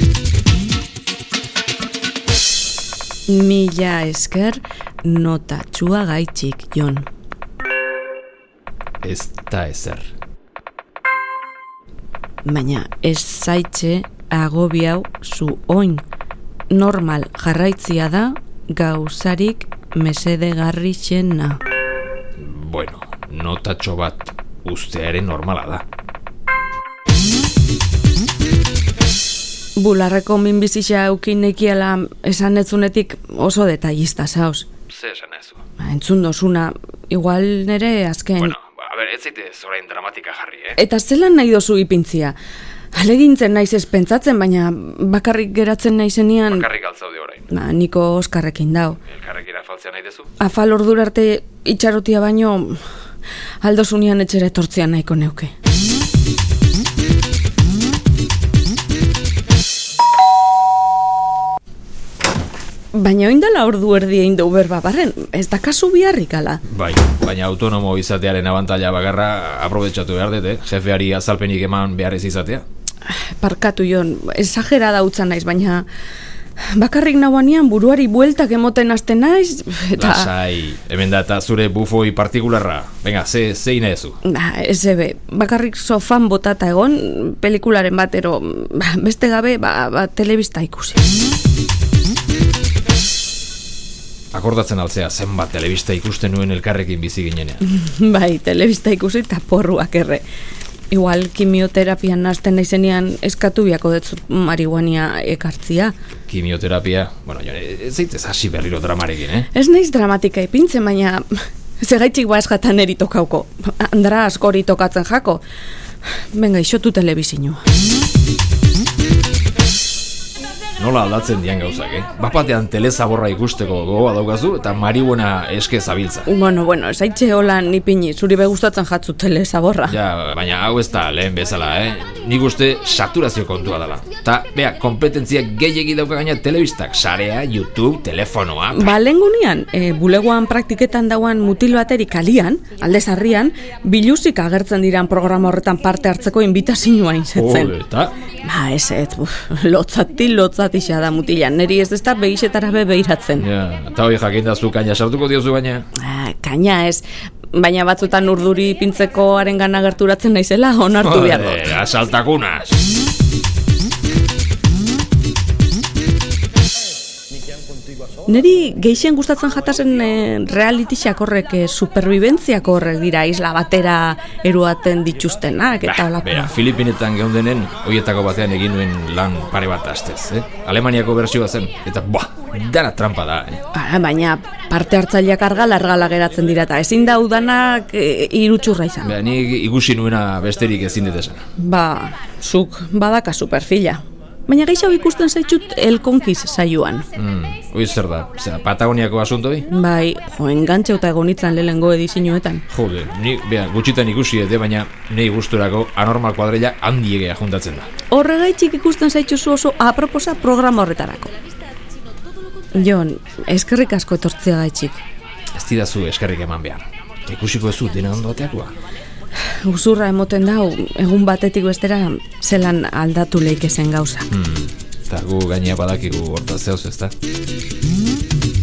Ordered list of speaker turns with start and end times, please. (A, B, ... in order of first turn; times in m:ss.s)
0:03.3-0:07.1 A
0:09.0-0:10.1 B
0:12.4-0:16.0 A
0:16.7-0:21.6 A
0:22.4-0:25.8 B
0:29.8-0:34.7 A
0:34.9-0:35.6 B
0:35.8-0:38.5 A
0:38.4-0:40.8 B
0:40.8-0:42.4 A
0:42.9-0:46.7 A
0:46.5-0:47.5 B
0:47.5-0:49.0 A
0:49.0-0:50.3 B
0:50.4-0:52.8 A
0:53.6-0:55.5 A
1:02.9-1:06.6 A
1:06.6-1:12.6 B
1:13.0-1:15.8 A
1:16.7-1:20.3 A
1:20.0-1:24.2 B
1:24.2-1:31.0 A
1:34.3-1:37.6 B
1:37.6-1:40.2 A
1:40.9-1:45.9 A
1:46.3-1:49.5 B
1:49.5-1:55.4 A
1:56.3-1:57.6 A
2:00.8-2:06.3 B
2:06.2-2:10.0 A
2:09.8-2:19.0 B
2:18.7-2:27.7 A
2:27.3-2:28.2 B
2:28.4-2:33.5 A
2:33.3-2:35.9 B
2:35.9-2:41.8 A
2:41.0-2:42.8 B
2:48.2-2:56.5 A
2:55.8-3:03.6 B
3:03.7-3:09.1 A
3:09.0-3:11.4 B
3:11.6-3:17.0 A
3:17.2-3:19.7 B
3:19.7-3:22.6 A
3:22.7-3:27.9 B
3:28.1-3:31.3 A
3:32.7-3:35.0 A
3:35.5-3:38.7 B
3:39.6-3:44.3 A
3:44.3-3:47.1 B